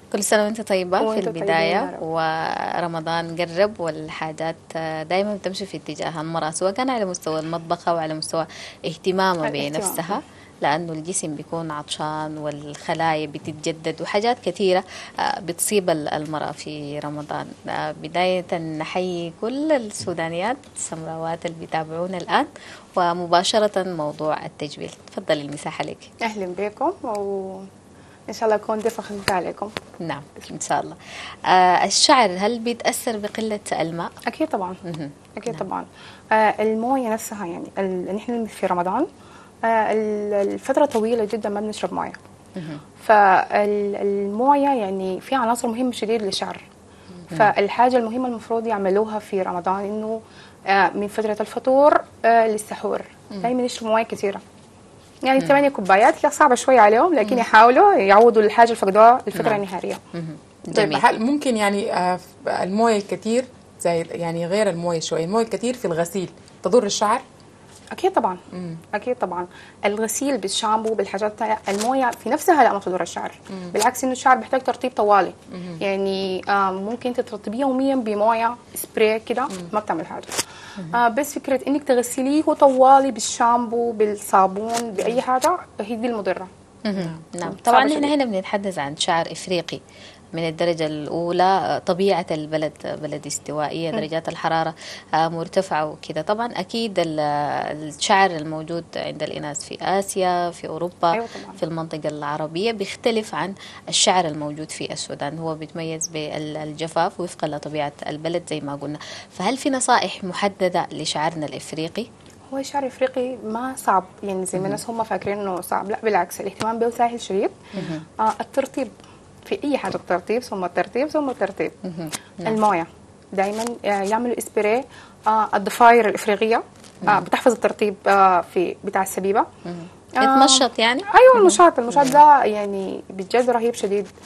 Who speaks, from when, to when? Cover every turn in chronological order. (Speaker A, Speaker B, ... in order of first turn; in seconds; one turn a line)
Speaker A: 0.1-26.1
Speaker B: 1.0-2.0
Speaker B: 9.4-10.2
Speaker B: 26.2-27.7
Speaker B: 28.3-29.7
Speaker A: 30.0-34.1
Speaker B: 34.3-34.8
Speaker A: 34.8-35.6
Speaker B: 35.4-39.1
Speaker B: 39.6-42.2
Speaker A: 42.6-42.8
Speaker B: 43.0-46.6
Speaker B: 47.3-54.4
Speaker B: 55.2-60.0
Speaker A: 59.3-59.6
Speaker A: 60.1-61.0
Speaker C: 60.8-67.2
Speaker B: 67.9-68.4
Speaker C: 68.5-68.8
Speaker B: 68.9-80.3
Speaker C: 73.5-73.8
Speaker C: 75.5-75.8
Speaker B: 80.9-86.5
Speaker A: 86.9-89.8
Speaker C: 87.0-87.2
Speaker B: 87.4-88.1
Speaker A: 90.3-112.1
Speaker B: 101.1-101.6
Speaker B: 112.5-118.9
Speaker A: 117.7-118.0
Speaker B: 119.5-121.7
Speaker A: 121.8-122.6
Speaker B: 122.5-129.5
Speaker A: 129.7-132.2
Speaker B: 130.2-134.1